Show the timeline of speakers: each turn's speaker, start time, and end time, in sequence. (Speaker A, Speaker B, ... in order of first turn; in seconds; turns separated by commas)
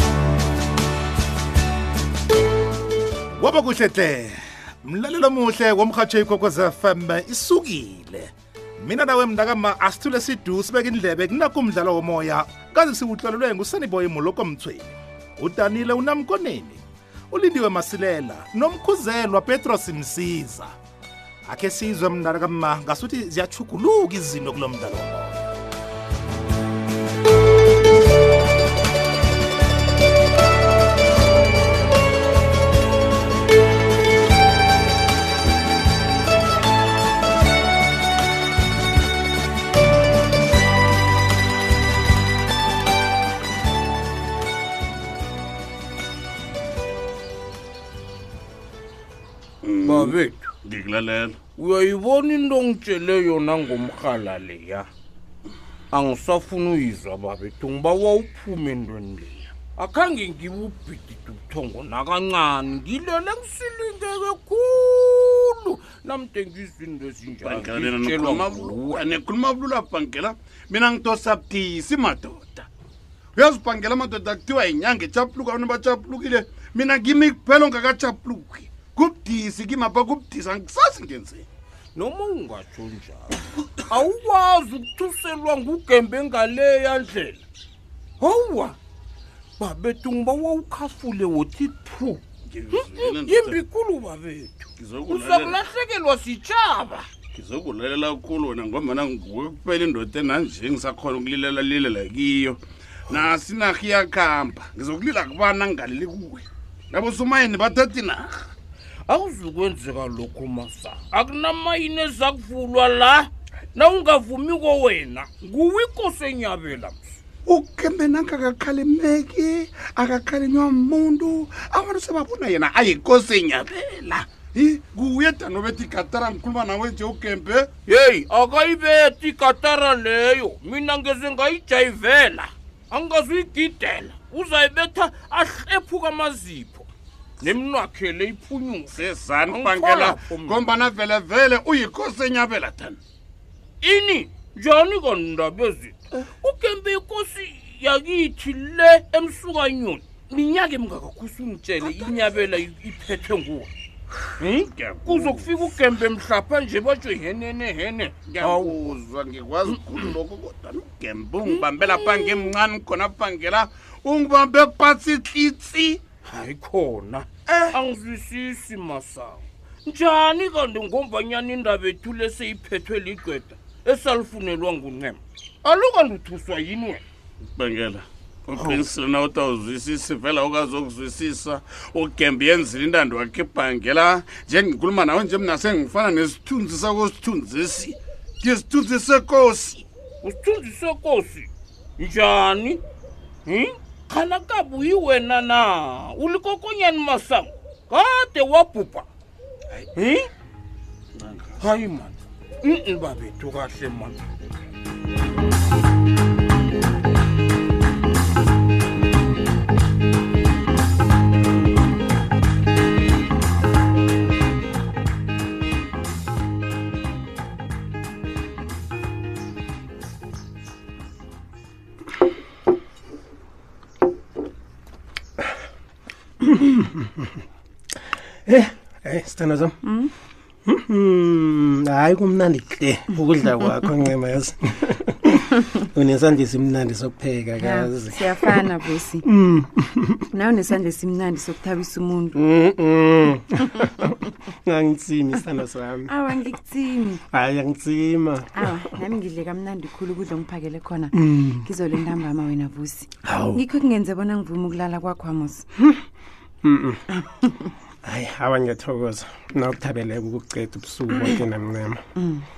Speaker A: 3.4-20.7, Speaker A: 21.5-25.4, Speaker B: 49.6-51.4, Speaker C: 49.8-50.5, Speaker C: 51.6-54.9, Speaker C: 55.9-69.0, Speaker B: 67.4-72.7, Speaker B: 73.3-81.5, Speaker C: 82.0-87.4, Speaker C: 88.2-88.8, Speaker C: 89.6-92.2, Speaker B: 92.5-93.6, Speaker C: 92.7-97.1, Speaker B: 94.8-95.6, Speaker B: 97.3-108.5, Speaker C: 109.1-117.0, Speaker B: 117.5-127.7, Speaker C: 127.8-136.9, Speaker C: 137.4-139.0, Speaker B: 138.9-143.0, Speaker C: 139.5-140.7, Speaker C: 143.8-153.7, Speaker C: 154.4-158.9, Speaker B: 154.7-155.5, Speaker B: 158.3-166.0, Speaker C: 159.8-160.1, Speaker C: 166.2-177.0, Speaker B: 177.6-189.8, Speaker C: 178.6-178.8, Speaker C: 190.2-192.8, Speaker C: 193.4-199.1, Speaker C: 199.9-200.3, Speaker B: 201.2-201.5, Speaker C: 201.6-204.2, Speaker D: 228.5-229.6, Speaker D: 230.7-235.1, Speaker D: 235.9-238.1, Speaker E: 237.6-239.2, Speaker D: 239.3-240.0, Speaker E: 240.3-242.3, Speaker D: 242.4-243.2, Speaker D: 244.7-245.9, Speaker E: 246.1-247.2, Speaker D: 247.3-248.3, Speaker E: 248.5-255.7, Speaker D: 258.1-261.9, Speaker E: 262.2-262.4